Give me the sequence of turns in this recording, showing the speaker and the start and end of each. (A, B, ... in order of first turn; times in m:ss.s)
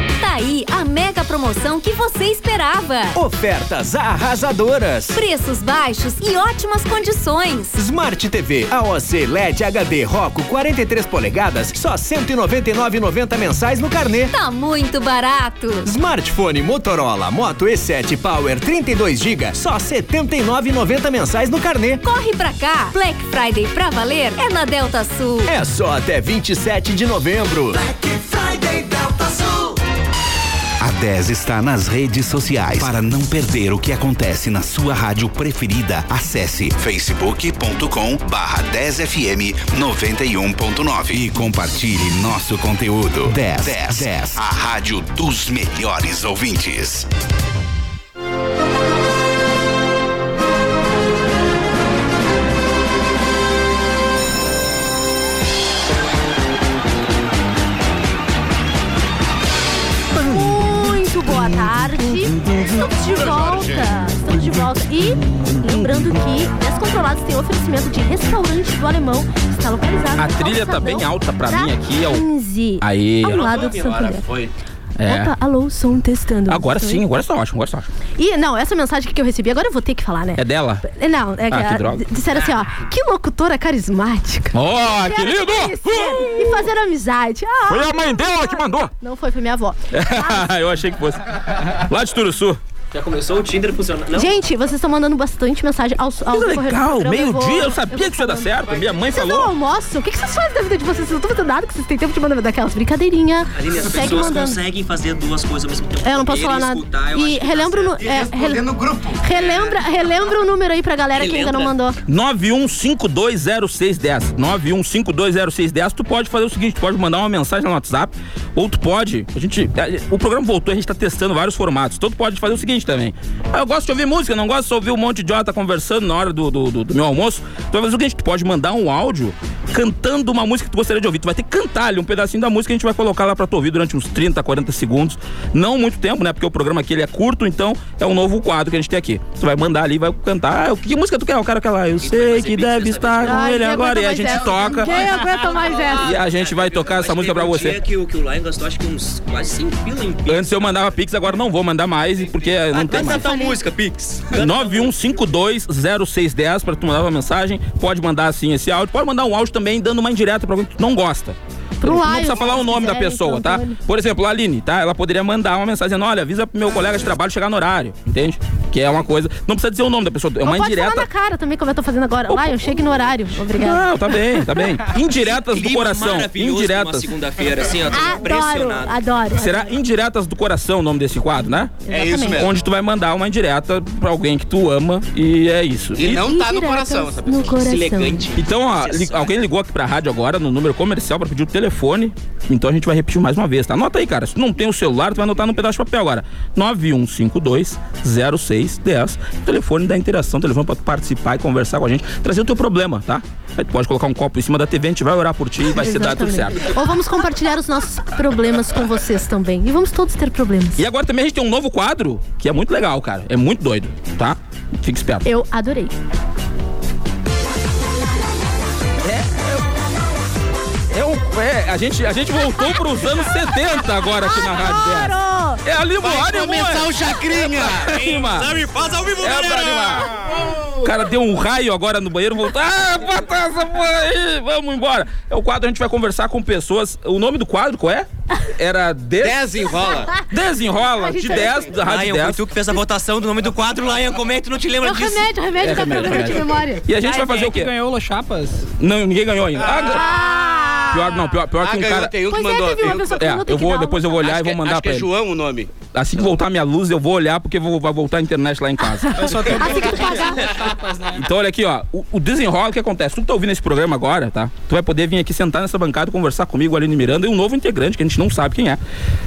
0:00.2-0:03.2 A
0:03.1-0:05.2 B
0:05.1-0:07.8 A
0:07.8-0:14.3 B
0:14.3-0:15.9 A
0:15.8-0:22.0 B
0:22.0-0:25.5 A
0:25.4-0:27.8 B
0:30.8-0:47.1 C
1:00.1-1:14.2 D
1:02.5-1:03.9 E
1:05.6-1:06.1 F
1:10.2-1:12.2 F
1:12.8-1:13.4 F
1:13.3-1:14.5 G
1:13.4-1:14.0 E
1:15.0-1:15.3 F
1:15.0-1:17.0 D
1:16.5-1:17.9 F
1:18.2-1:30.5 D
1:20.4-1:20.8 F
1:21.5-1:22.0 F
1:24.5-1:26.7 F
1:27.7-1:28.9 F
1:29.9-1:32.6 F
1:32.9-1:34.4 G
1:34.1-1:38.5 D
1:36.3-1:39.5 F
1:39.1-1:44.6 D
1:43.6-1:48.0 G
1:46.0-1:48.7 D
1:48.0-1:49.2 E
1:49.2-1:52.0 D
1:49.3-1:50.0 G
1:51.1-1:51.7 G
1:52.1-2:25.1 F
2:22.0-2:23.5 G
2:23.2-2:26.1 D
2:24.9-2:30.9 G
2:26.0-2:27.8 F
2:30.3-2:33.3 F
2:32.7-2:34.9 G
2:33.0-2:33.6 D
2:34.3-2:51.1 F
2:41.8-2:43.8 D
2:50.4-2:54.6 D
2:52.3-2:53.0 F
2:53.5-2:57.1 F
2:55.0-2:59.0 G
2:57.9-2:59.7 D
2:59.3-3:06.2 F
3:01.8-3:02.5 D
3:01.9-3:02.5 E
3:06.0-3:08.0 E
3:06.0-3:08.3 D
3:07.6-3:09.3 G
3:08.3-3:26.7 F
3:25.8-3:30.8 D
3:30.8-3:35.2 F
3:35.2-3:35.9 D
3:39.0-3:39.7 F
3:40.9-3:47.0 F
3:44.0-3:45.6 D
3:46.0-3:48.0 E
3:47.6-3:48.6 F
3:47.8-3:50.1 G
3:49.2-3:50.2 F
3:50.2-3:50.9 E
3:50.8-3:59.6 F
3:59.2-4:00.1 E
4:00.3-4:02.5 F
4:00.8-4:01.7 D
4:01.8-4:05.3 G
4:04.8-4:06.8 D
4:05.6-4:07.7 F
4:07.0-4:08.7 H
4:08.8-4:10.1 F
4:09.8-4:11.2 D
4:10.9-4:12.1 F
4:11.6-4:13.2 E
4:12.3-4:14.2 D
4:13.1-4:15.1 F
4:14.2-4:15.7 E
4:15.9-4:19.8 F
4:19.1-4:21.2 H
4:19.2-4:20.6 D
4:21.1-4:28.8 F